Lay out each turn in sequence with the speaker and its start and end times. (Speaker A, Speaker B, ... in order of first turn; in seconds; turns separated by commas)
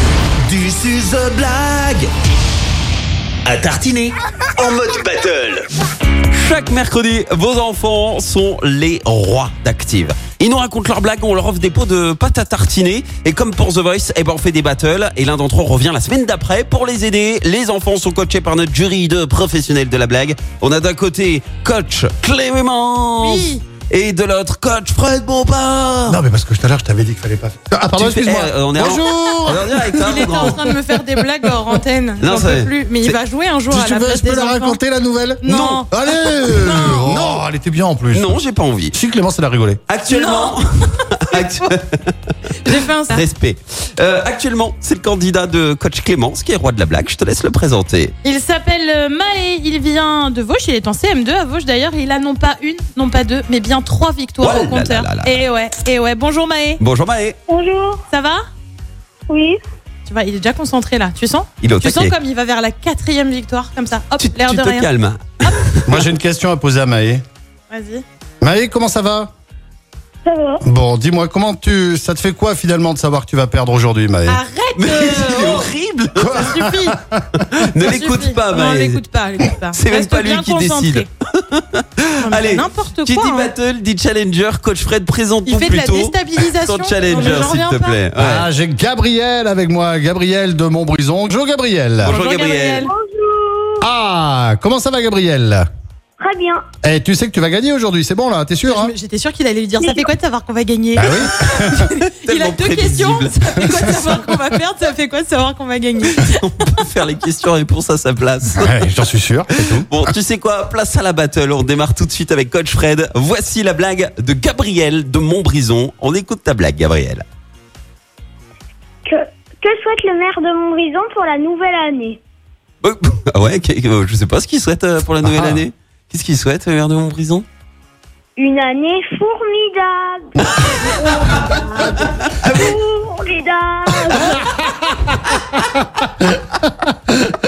Speaker A: 0.4-2.1, Speaker A: 3.4-5.6, Speaker B: 6.3-26.2, Speaker C: 23.2-23.6, Speaker D: 26.1-31.2, Speaker B: 27.9-30.6, Speaker C: 30.1-34.8, Speaker B: 32.2-33.2, Speaker D: 33.7-38.4, Speaker C: 35.4-37.0, Speaker B: 35.5-35.9, Speaker B: 36.5-37.4, Speaker B: 38.1-38.9, Speaker D: 38.9-39.8, Speaker B: 39.9-42.1, Speaker C: 40.1-40.6, Speaker C: 41.3-41.6, Speaker C: 42.6-43.2, Speaker B: 42.6-48.1, Speaker C: 48.2-56.8, Speaker B: 54.4-55.4, Speaker B: 56.8-57.4, Speaker E: 57.5-58.0, Speaker C: 58.1-58.4, Speaker E: 59.3-59.6, Speaker C: 60.0-64.9, Speaker B: 61.6-62.1, Speaker B: 64.2-66.1, Speaker D: 65.8-67.2, Speaker C: 67.7-68.0, Speaker D: 68.4-69.3, Speaker E: 70.2-70.6, Speaker D: 70.6-74.4, Speaker C: 74.3-75.7, Speaker B: 74.8-76.6, Speaker D: 76.2-77.2, Speaker C: 76.5-77.0, Speaker B: 77.4-79.0, Speaker C: 77.8-81.1, Speaker B: 79.7-88.5, Speaker C: 82.2-83.5, Speaker C: 85.4-88.0, Speaker D: 88.2-92.1, Speaker B: 92.0-92.9, Speaker C: 92.1-92.9, Speaker E: 92.8-93.8, Speaker D: 93.8-95.7, Speaker E: 96.2-96.6, Speaker D: 96.8-98.9, Speaker C: 98.6-106.8, Speaker E: 99.8-100.0, Speaker D: 100.9-101.8, Speaker B: 101.4-104.2, Speaker B: 106.1-109.1, Speaker D: 108.5-110.1, Speaker B: 109.7-117.2, Speaker E: 119.0-122.2, Speaker B: 122.8-127.4, Speaker D: 125.2-125.6, Speaker E: 128.4-134.6, Speaker B: 131.3-132.8